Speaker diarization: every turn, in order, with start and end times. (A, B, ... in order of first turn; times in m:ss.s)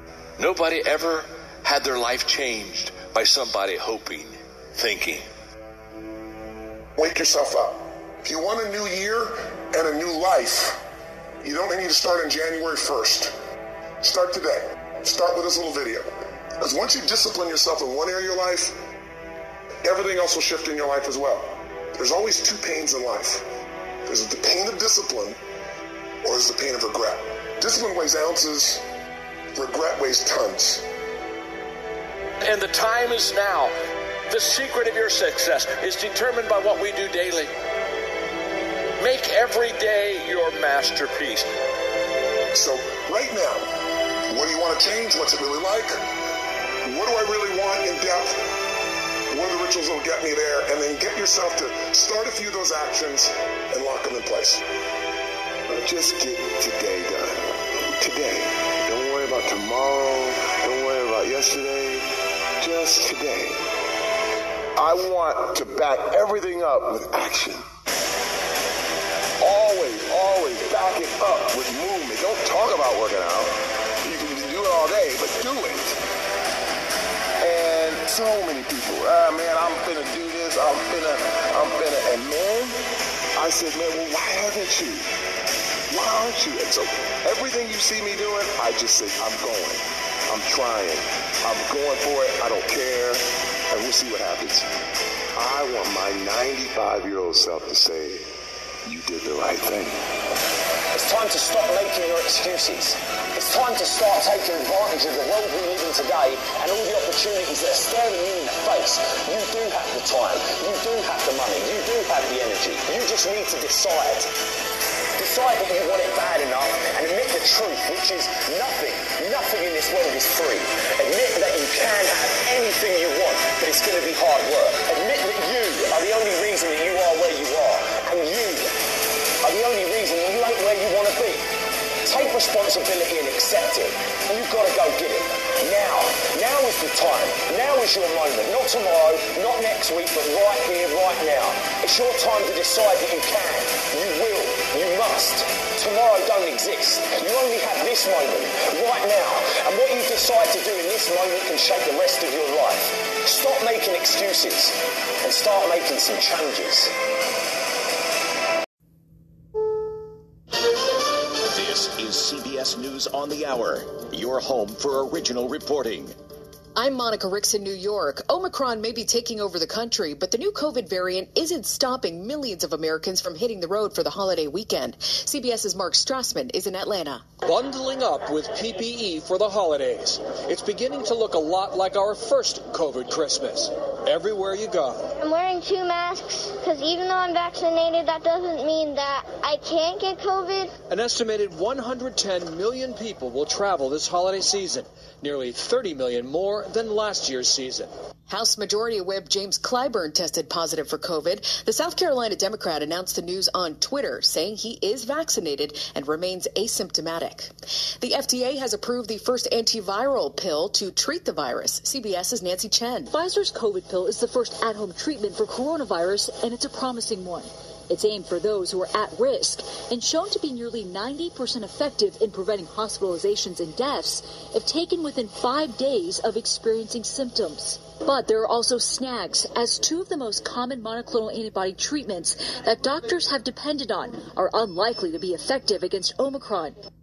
0:00.4-0:05.2 A
0:07.0-0:10.8 B
0:11.4-0:13.3 B
0:14.0-0:16.1 B
0:16.6-0:18.8 B
0:19.8-0:23.4 B
0:24.0-0:25.4 B
0:26.2-0:28.8 B
0:29.5-0:30.8 B
0:32.4-0:33.7 A
0:34.3-0:37.5 A
0:39.0-0:41.5 A
0:42.5-0:43.7 B
0:44.3-0:46.0 B
0:46.8-0:48.4 B
0:49.3-0:54.6 B
0:55.8-1:03.6 C
1:04.8-1:07.6 C
1:09.4-1:16.0 C
1:17.4-1:22.8 C
1:23.4-1:25.1 C
1:25.9-1:34.7 C
1:35.4-1:38.2 C
1:38.8-1:40.0 C
1:40.9-1:54.3 D
1:55.2-2:08.7 D
2:09.4-2:11.5 D
2:12.0-2:36.9 D
2:41.5-2:46.1 E
2:46.8-2:57.3 F
2:57.4-3:05.1 G
3:05.2-3:10.7 H
3:10.9-3:17.9 G
3:18.3-3:33.1 F
3:33.1-3:56.8 I